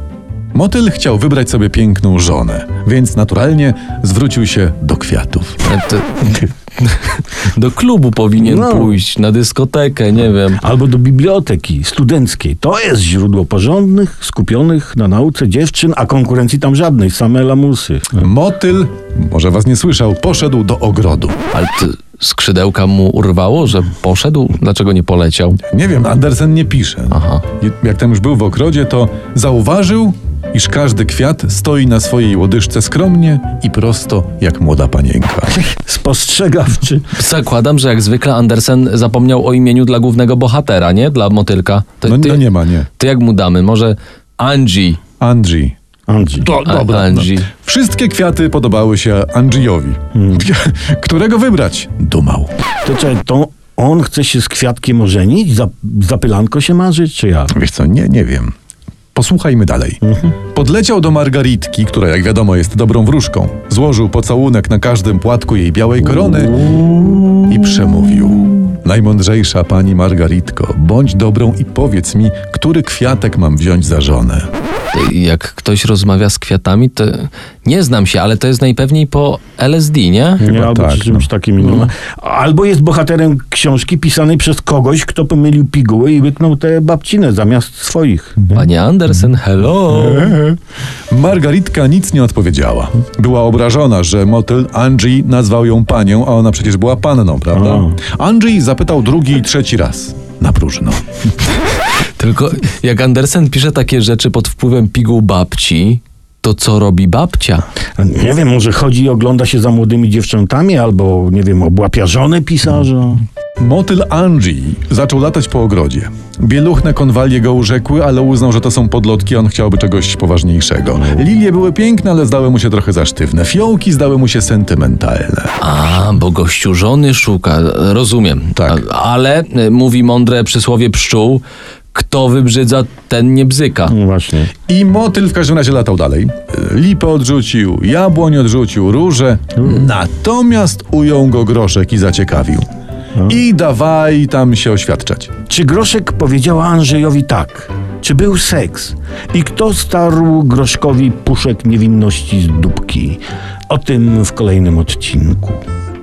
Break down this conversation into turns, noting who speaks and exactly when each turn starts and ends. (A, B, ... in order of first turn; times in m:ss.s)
0:00.5-0:05.7 A
0:05.6-0:10.6 B
0:08.4-0:09.0 C
0:10.5-0:18.2 C
0:18.2-0:21.4 A
0:21.5-0:25.6 B
0:25.6-0:35.6 A
0:27.1-0:27.4 B
0:35.5-0:37.1 C
0:37.1-0:45.0 B
0:42.0-0:42.9 A
0:45.2-0:45.7 A
0:46.1-0:46.5 C
0:46.4-0:52.5 A
0:46.6-0:47.5 B
0:50.2-0:50.5 C
0:52.8-0:57.5 C
0:57.5-0:58.5 A
0:59.1-1:00.0 A
1:00.0-1:00.3 C
1:00.5-1:14.5 A
1:14.9-1:20.4 B
1:20.4-1:21.3 A
1:20.4-1:28.6 C
1:21.6-1:21.9 B
1:28.5-1:30.5 B
1:31.1-1:41.0 A
1:37.5-1:38.0 C
1:42.2-1:47.7 B
1:48.0-1:53.2 C
1:53.6-2:05.6 A
2:05.6-2:11.4 B
2:08.6-2:08.8 A
2:11.9-2:14.0 B
2:13.9-2:14.5 C
2:14.7-2:22.6 A
2:23.3-2:25.3 A
2:25.5-2:35.6 C